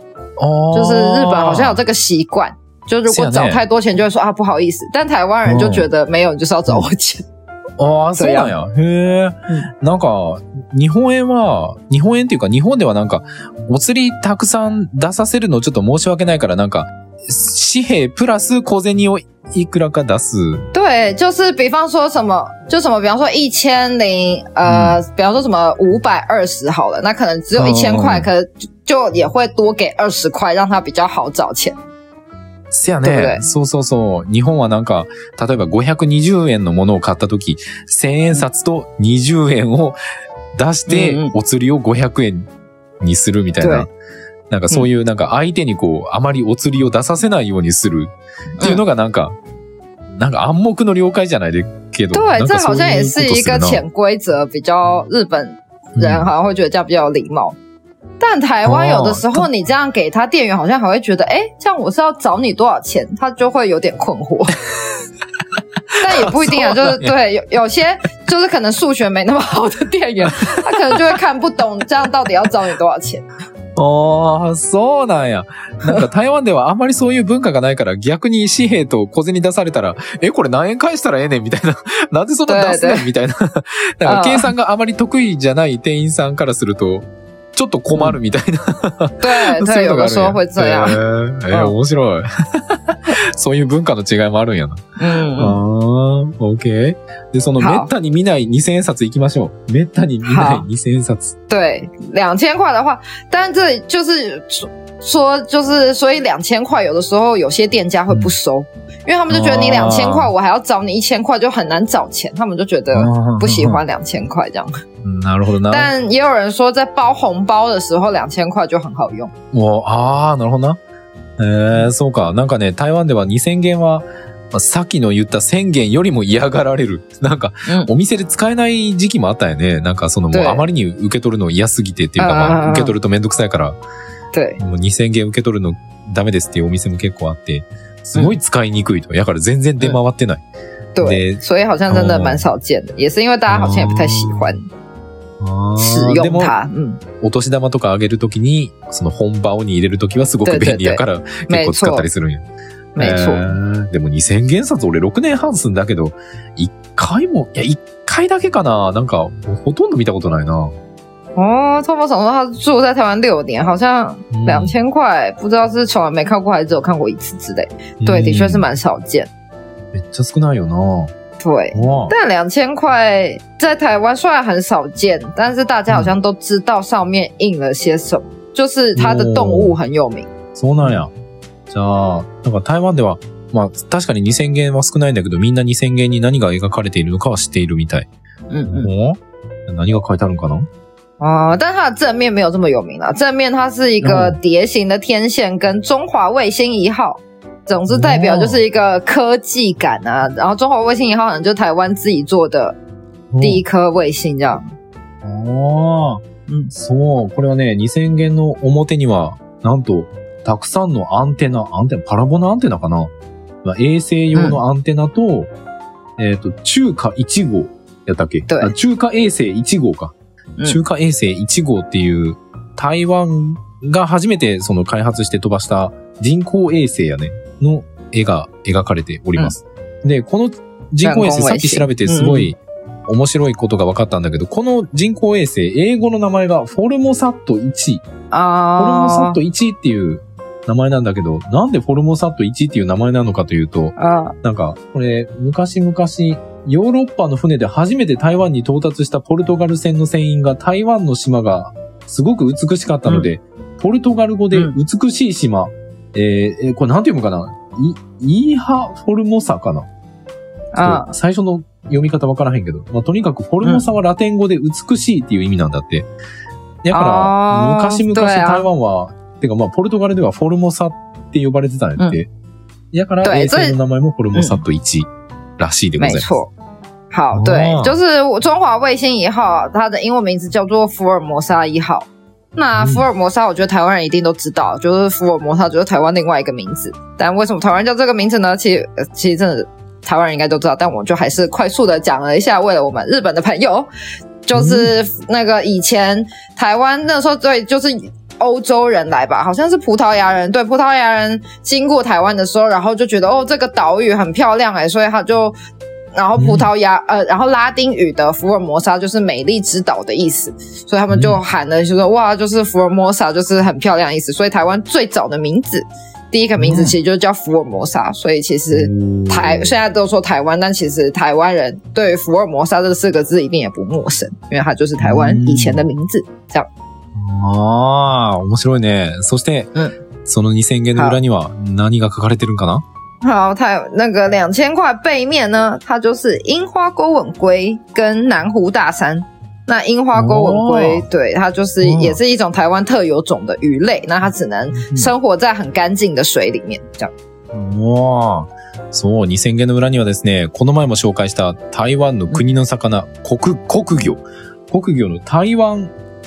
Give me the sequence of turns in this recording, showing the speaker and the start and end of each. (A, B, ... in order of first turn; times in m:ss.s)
0:00.4-0:01.8 A
0:00.7-0:07.2 B
0:03.1-0:03.6 A
0:05.4-0:05.9 A
0:07.8-0:20.7 A
0:08.2-0:08.5 B
0:20.7-0:31.8 B
0:24.7-0:25.0 A
0:27.6-0:28.3 A
0:32.7-0:40.0 A
0:33.0-0:33.5 B
0:40.6-0:42.5 A
0:40.9-0:41.3 B
0:43.0-0:43.9 A
0:43.6-0:43.9 B
0:44.5-0:48.1 A
0:48.6-0:49.3 A
0:50.2-0:53.8 A
0:52.1-0:57.6 B
0:56.0-0:56.3 A
0:58.2-1:04.6 B
0:58.6-0:59.5 A
1:06.0-1:07.1 A
1:06.0-1:13.3 B
1:10.2-1:11.2 A
1:13.8-1:41.4 A
1:22.5-1:23.1 B
1:24.0-1:24.5 B
1:29.2-1:31.8 B
1:35.0-1:35.6 B
1:37.6-1:37.9 B
1:40.2-1:40.6 B
1:41.5-1:54.7 B
1:49.3-1:50.3 A
1:52.9-1:53.8 A
1:55.0-1:55.9 A
1:55.7-1:59.3 B
1:59.5-2:00.8 A
2:01.4-2:13.8 A
2:10.3-2:10.6 B
2:12.2-2:12.9 B
2:14.3-2:14.6 B
2:14.6-2:20.4 A
2:21.0-2:24.7 B
2:21.0-2:22.4 A
2:23.5-2:24.5 A
2:25.4-2:26.5 A
2:25.8-2:27.0 B
2:27.2-2:32.4 A
2:30.4-2:32.1 B
2:33.0-2:33.5 B
2:33.0-2:40.7 A
2:41.4-2:49.3 B
2:44.3-2:44.7 A
2:48.0-2:48.6 A
2:49.9-2:51.1 A
2:51.4-3:00.3 B
2:51.7-2:52.1 A
2:59.0-2:59.8 A
3:00.6-3:01.1 A
3:01.7-3:08.1 A
3:08.5-3:08.9 B
3:08.7-3:10.7 A
3:11.2-3:22.8 B
3:14.0-3:14.4 A
3:17.9-3:18.6 A
3:23.3-3:23.6 A
3:23.4-3:24.7 B
3:25.2-3:33.1 A
3:26.5-3:26.7 B
3:33.6-3:35.5 A
3:34.3-3:34.6 B
3:36.2-3:40.1 A
3:38.5-3:38.7 B
3:40.6-3:58.0 A
3:51.0-3:52.5 B
3:58.3-3:59.4 B
3:58.8-4:19.9 A
4:04.0-4:04.4 B
4:20.7-4:21.1 B
4:20.8-4:26.1 A
4:26.8-4:32.3 A
4:26.9-4:28.7 B
4:32.9-4:36.3 A
4:33.2-4:33.8 B
4:34.3-4:34.6 B
4:36.0-4:36.5 B
4:37.1-4:53.9 B
4:37.3-4:38.0 A
4:42.8-4:43.0 A
4:54.5-5:05.6 B
4:54.6-4:54.9 A
5:06.1-5:26.7 B
5:06.4-5:06.7 A
5:11.1-5:11.4 A
5:16.6-5:17.0 A
5:18.7-5:19.7 A
5:25.0-5:25.8 A
5:27.2-5:29.7 A
5:30.2-5:32.8 A
5:33.2-5:47.1 B
5:40.1-5:41.0 A
5:41.8-5:42.2 A
5:44.8-5:45.1 A
5:47.5-5:55.9 A